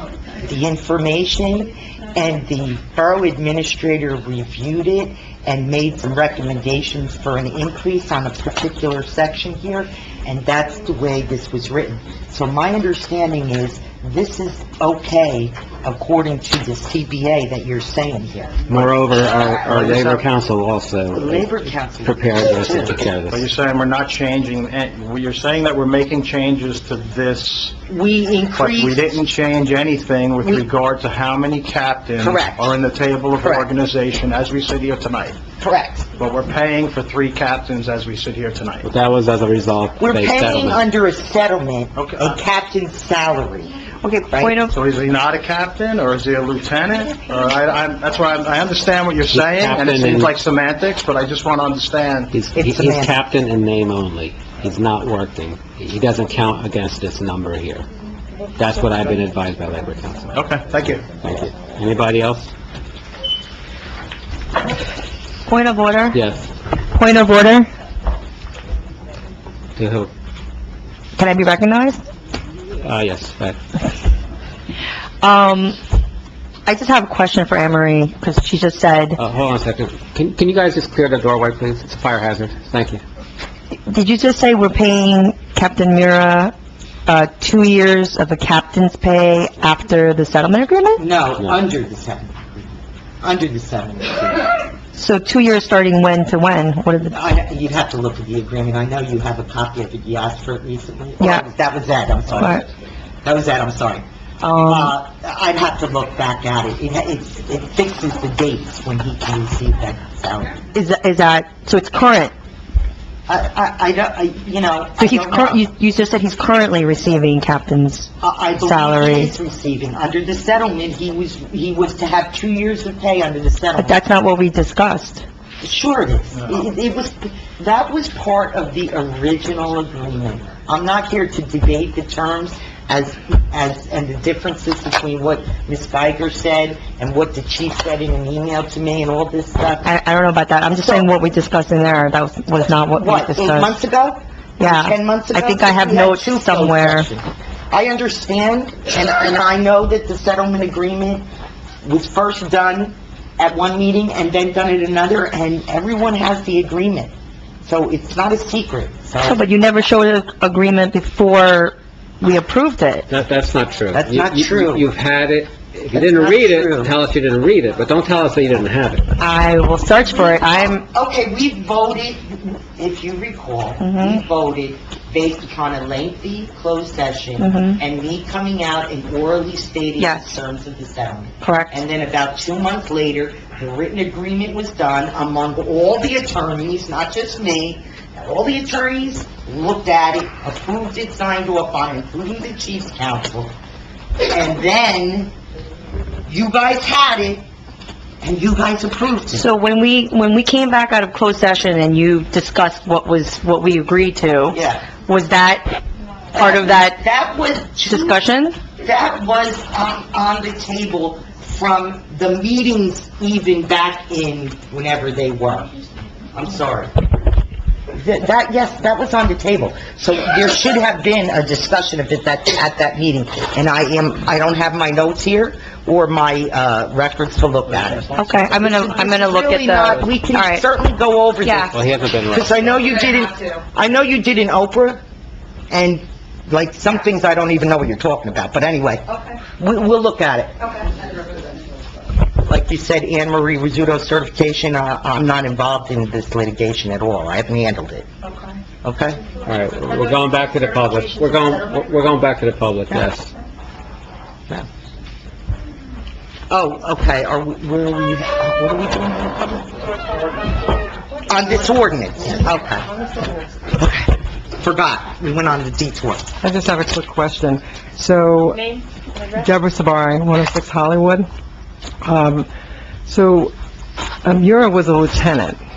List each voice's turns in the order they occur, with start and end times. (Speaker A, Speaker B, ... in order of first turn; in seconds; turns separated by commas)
Speaker A: 0.4-18.6, Speaker B: 18.7-21.5, Speaker A: 19.4-20.2, Speaker A: 21.1-23.0, Speaker B: 22.0-23.4, Speaker C: 23.3-27.8, Speaker A: 27.9-29.1, Speaker C: 28.5-35.4, Speaker A: 32.2-32.7, Speaker A: 33.4-33.7, Speaker A: 35.6-36.1, Speaker C: 36.2-38.9, Speaker B: 38.8-40.8, Speaker A: 40.0-43.7, Speaker C: 42.0-42.4, Speaker D: 44.0-44.8, Speaker A: 44.3-44.6, Speaker C: 44.7-52.3, Speaker B: 49.3-50.3, Speaker B: 52.3-57.9, Speaker A: 52.5-53.2, Speaker B: 58.5-60.4, Speaker C: 60.3-61.1, Speaker B: 61.2-62.5, Speaker D: 65.5-66.2, Speaker B: 66.1-66.5, Speaker D: 66.9-67.7, Speaker B: 69.8-70.1, Speaker D: 71.2-72.0, Speaker B: 72.8-73.6, Speaker D: 75.2-75.8, Speaker D: 76.7-79.2, Speaker B: 79.2-83.0, Speaker D: 83.9-86.5, Speaker D: 87.1-91.0, Speaker A: 91.0-94.5, Speaker D: 94.9-97.1, Speaker A: 97.1-102.7, Speaker D: 101.2-101.4, Speaker A: 103.2-104.0, Speaker D: 104.4-104.9, Speaker A: 104.6-110.6, Speaker D: 110.7-112.3, Speaker A: 113.3-115.7, Speaker D: 115.0-119.3, Speaker A: 118.2-124.0, Speaker D: 123.8-125.2, Speaker A: 125.6-139.9, Speaker D: 139.8-143.8, Speaker A: 142.9-151.2, Speaker D: 144.6-147.1, Speaker A: 151.8-157.1, Speaker A: 157.6-159.4, Speaker D: 159.2-163.1, Speaker B: 163.1-169.1, Speaker A: 163.9-164.9, Speaker A: 165.9-166.9, Speaker D: 169.2-170.8, Speaker A: 170.0-193.5, Speaker D: 173.8-174.2, Speaker D: 177.4-177.8, Speaker D: 180.0-180.3, Speaker D: 181.4-181.7, Speaker A: 194.2-195.3, Speaker A: 196.2-197.4, Speaker A: 198.2-199.4, Speaker D: 199.3-205.8, Speaker A: 204.5-204.9, Speaker A: 206.3-208.2, Speaker D: 206.3-207.0, Speaker D: 207.8-208.6, Speaker A: 208.8-215.7, Speaker A: 216.3-216.9, Speaker A: 217.9-235.0, Speaker D: 228.2-230.6, Speaker D: 231.4-231.7, Speaker B: 231.7-232.9, Speaker A: 235.7-240.6, Speaker A: 242.4-248.1, Speaker D: 248.2-248.6, Speaker A: 248.8-249.2, Speaker B: 249.4-253.3, Speaker A: 256.5-259.8, Speaker A: 261.2-262.9, Speaker A: 263.7-266.3, Speaker E: 266.4-268.6, Speaker E: 269.3-271.3, Speaker E: 272.0-272.5, Speaker E: 273.1-273.5, Speaker E: 274.2-275.6